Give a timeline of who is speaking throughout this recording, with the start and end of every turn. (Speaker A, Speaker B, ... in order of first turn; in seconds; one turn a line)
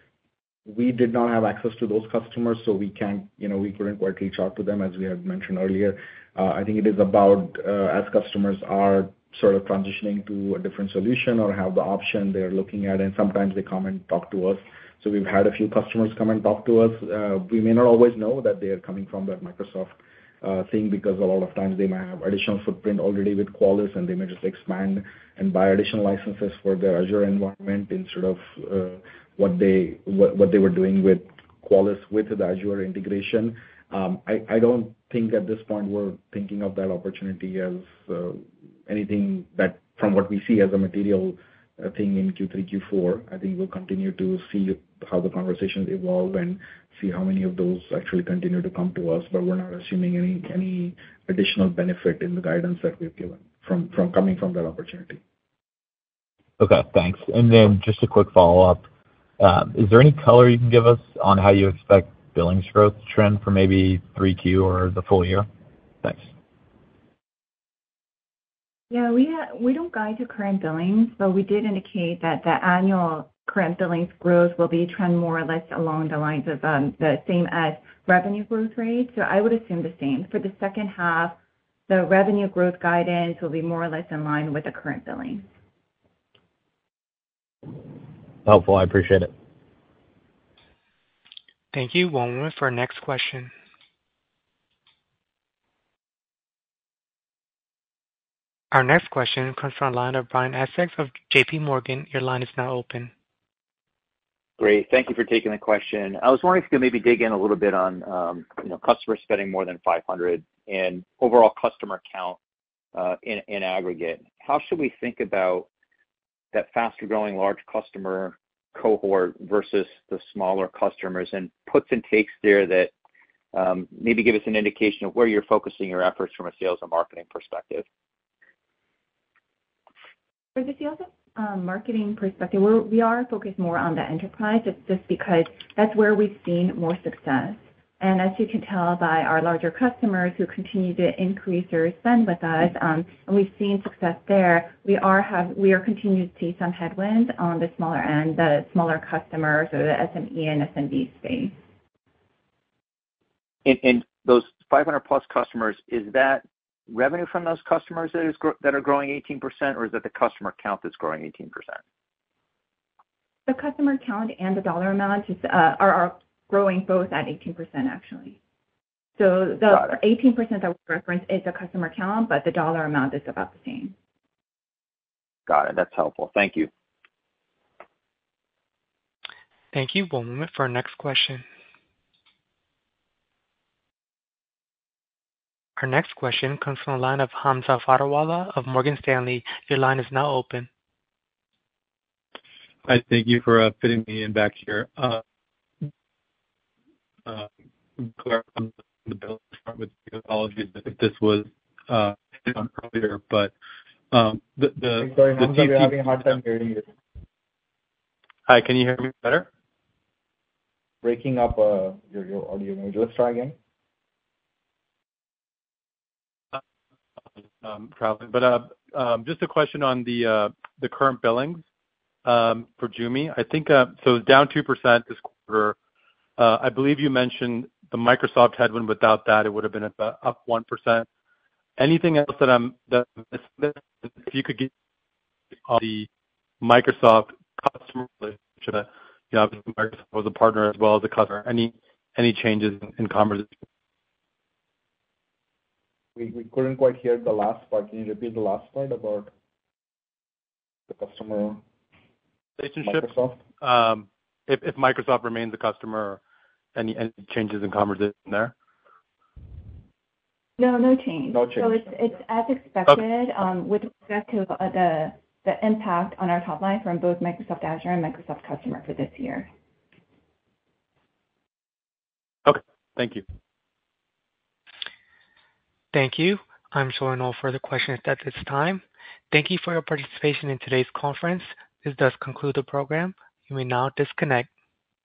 Speaker A: 0.7-55.2
Speaker B: 56.6-58.9
Speaker B: 59.4-65.5
Speaker B: 66.0-66.3
Speaker C: 68.9-81.4
Speaker C: 81.9-85.5
Speaker B: 88.5-89.3
Speaker D: 91.7-93.5
Speaker D: 98.7-103.1
Speaker E: 104.6-112.4
Speaker E: 113.0-115.7
Speaker E: 116.5-122.9
Speaker E: 123.5-127.8
Speaker C: 130.6-151.6
Speaker E: 153.7-161.8
Speaker C: 163.5-168.4
Speaker C: 169.2-173.9
Speaker E: 175.5-176.7
Speaker D: 179.7-181.4
Speaker D: 185.8-190.7
Speaker F: 192.8-195.2
Speaker F: 197.3-203.5
Speaker F: 204.1-206.2
Speaker A: 205.0-206.8
Speaker F: 208.5-209.5
Speaker A: 211.0-213.6
Speaker F: 217.6-221.6
Speaker F: 222.2-225.8
Speaker F: 226.4-231.1
Speaker F: 231.8-234.7
Speaker F: 235.7-236.1
Speaker F: 236.6-243.6
Speaker A: 246.2-249.3
Speaker A: 250.9-251.6
Speaker F: 252.6-253.1
Speaker A: 252.8-253.4
Speaker F: 253.6-256.2
Speaker F: 256.8-258.5
Speaker C: 260.6-269.5
Speaker A: 261.3-261.8
Speaker F: 272.4-273.2
Speaker D: 275.9-284.5